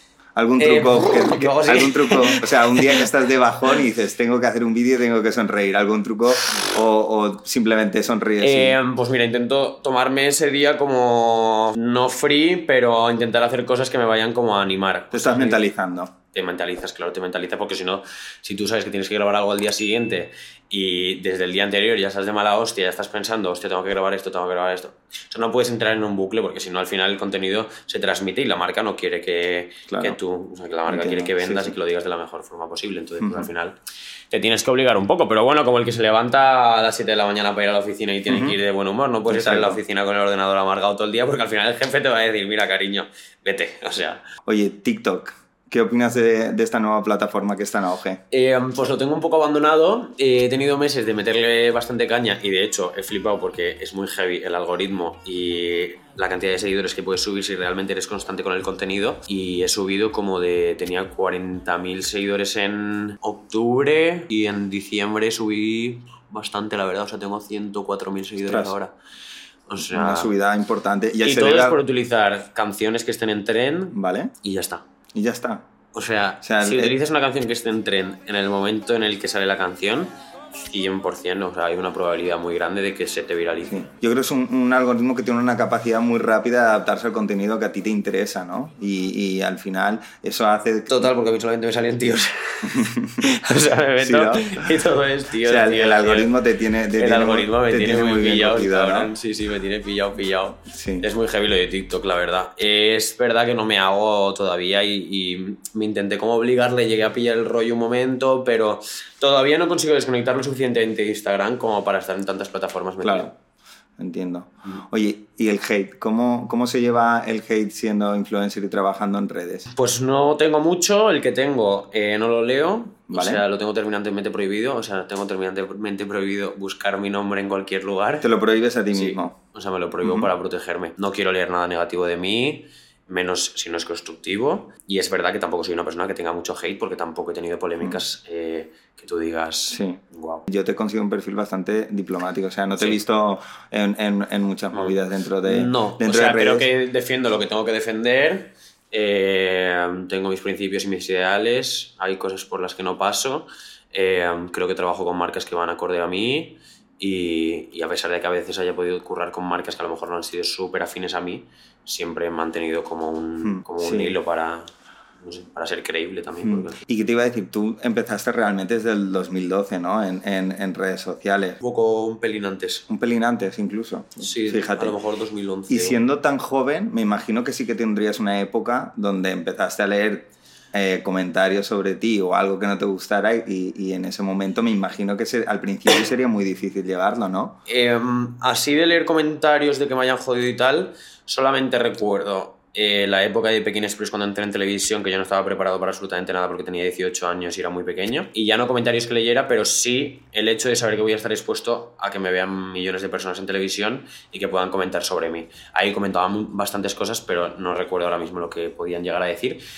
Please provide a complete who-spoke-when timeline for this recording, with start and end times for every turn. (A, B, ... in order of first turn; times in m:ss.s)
0:00.4-0:08.8 A
0:00.6-0:03.0 B
0:08.4-0:15.6 B
0:15.1-0:16.1 A
0:16.3-0:33.8 B
0:29.9-0:30.2 A
0:30.9-0:31.7 A
0:33.2-0:33.5 A
0:34.3-0:44.2 B
0:38.3-0:38.6 A
0:39.3-0:39.8 A
0:44.4-0:48.2 A
0:48.3-1:08.9 B
1:08.4-1:08.7 A
1:09.7-1:10.3 B
1:09.8-1:11.8 A
1:11.2-1:14.8 B
1:13.9-1:14.3 A
1:15.1-1:15.6 A
1:15.9-1:20.1 B
1:16.4-1:17.0 A
1:20.7-1:23.8 B
1:23.7-1:31.1 A
1:30.9-1:36.3 B
1:32.6-1:33.2 A
1:34.0-1:34.8 A
1:35.4-1:39.1 A
1:37.0-1:53.3 B
1:40.7-1:41.1 A
1:53.0-1:53.3 A
1:54.0-1:59.7 A
1:59.7-2:08.3 B
2:03.1-2:03.4 A
2:08.2-2:09.4 A
2:08.9-2:20.5 B
2:10.0-2:10.3 A
2:19.7-2:26.7 A
2:24.7-2:46.8 B
2:43.4-2:44.2 A
2:46.4-2:51.6 A
2:51.6-2:52.8 B
2:52.9-2:55.0 A
2:54.2-2:56.0 B
2:55.7-3:07.6 A
3:07.7-3:29.6 B